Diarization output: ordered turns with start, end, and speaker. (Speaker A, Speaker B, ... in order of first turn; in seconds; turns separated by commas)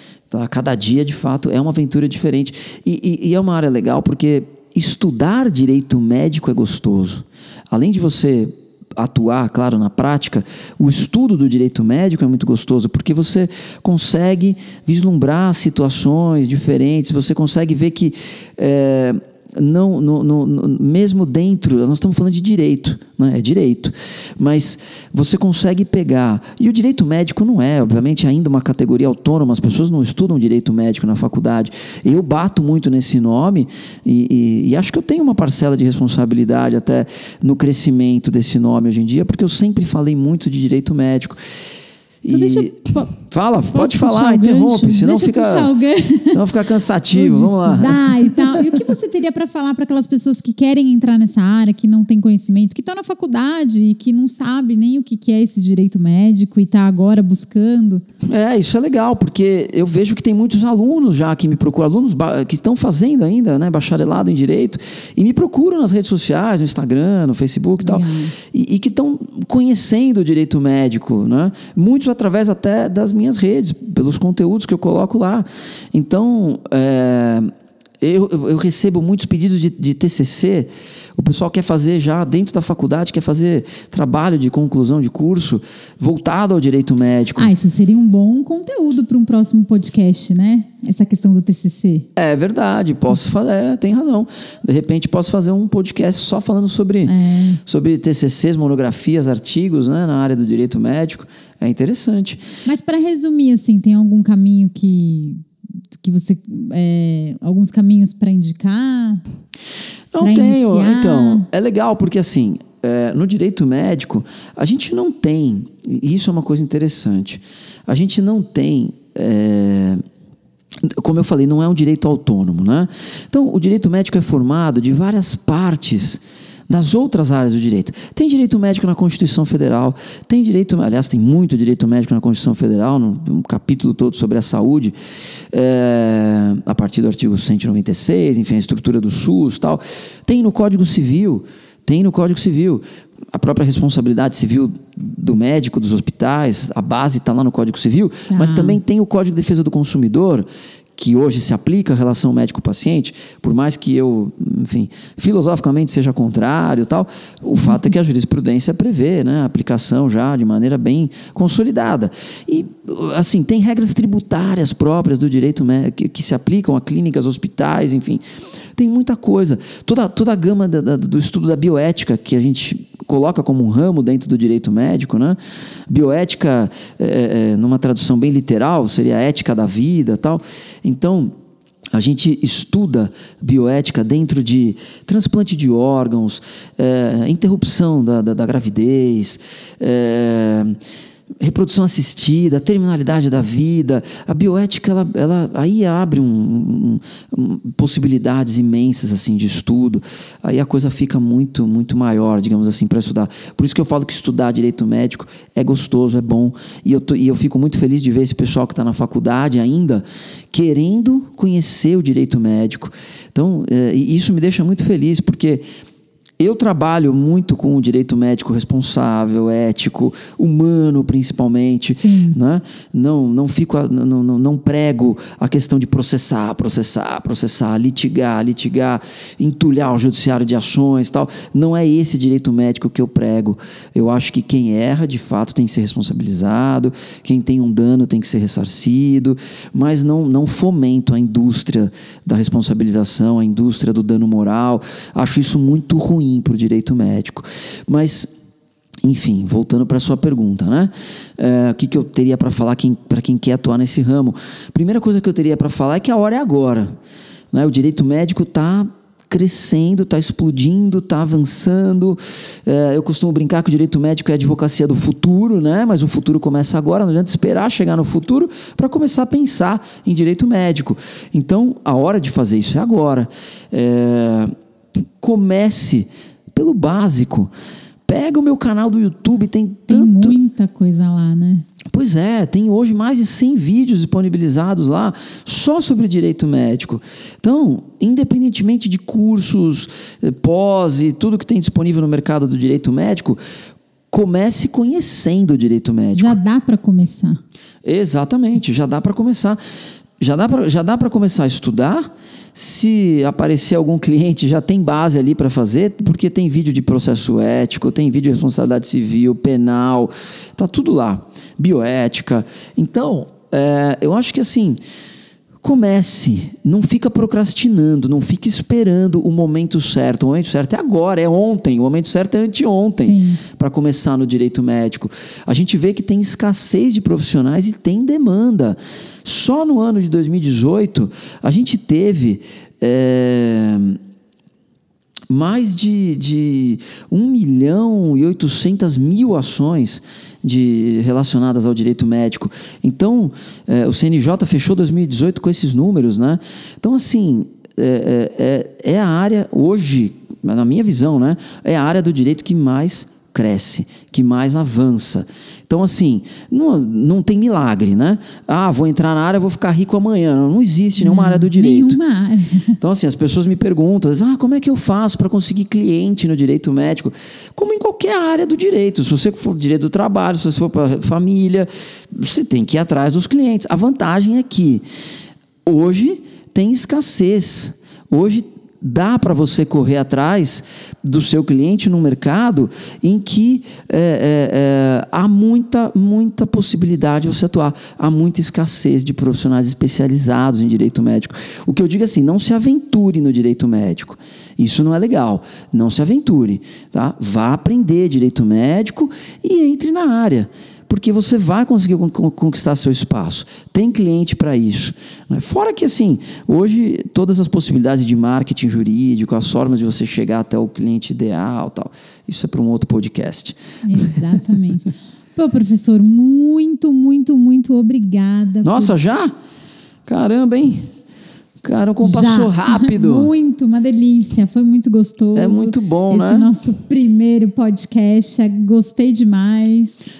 Speaker A: 0.3-41.4, Speaker A: 42.2-45.7, Speaker B: 42.3-43.1, Speaker B: 43.7-46.5, Speaker A: 46.3-48.6, Speaker B: 47.1-58.0, Speaker A: 58.3-87.5, Speaker B: 67.8-68.3, Speaker B: 87.4-92.0, Speaker A: 92.2-97.1, Speaker B: 97.0-97.6, Speaker A: 97.7-102.4, Speaker B: 102.6-105.4, Speaker B: 106.0-109.2, Speaker A: 110.1-120.0, Speaker B: 110.2-111.5, Speaker A: 120.9-134.9, Speaker A: 135.5-168.2, Speaker B: 148.3-148.8, Speaker A: 168.8-175.4, Speaker A: 175.9-181.3, Speaker A: 181.9-190.8, Speaker A: 191.4-215.6, Speaker A: 216.4-248.3, Speaker B: 222.0-222.4, Speaker A: 249.0-256.9, Speaker A: 257.5-274.5, Speaker A: 275.2-277.5, Speaker A: 278.1-280.4, Speaker B: 279.9-281.6, Speaker A: 281.9-293.4, Speaker A: 294.1-296.4, Speaker B: 296.1-297.4, Speaker A: 297.8-299.6, Speaker A: 300.2-314.8, Speaker A: 315.6-334.0, Speaker B: 323.0-323.4, Speaker A: 335.3-362.0, Speaker B: 361.0-362.8, Speaker A: 362.8-374.8, Speaker A: 375.6-413.6, Speaker B: 413.8-418.9, Speaker A: 418.6-419.3, Speaker A: 420.1-420.9, Speaker A: 421.6-423.3, Speaker B: 422.0-430.0, Speaker A: 425.3-426.5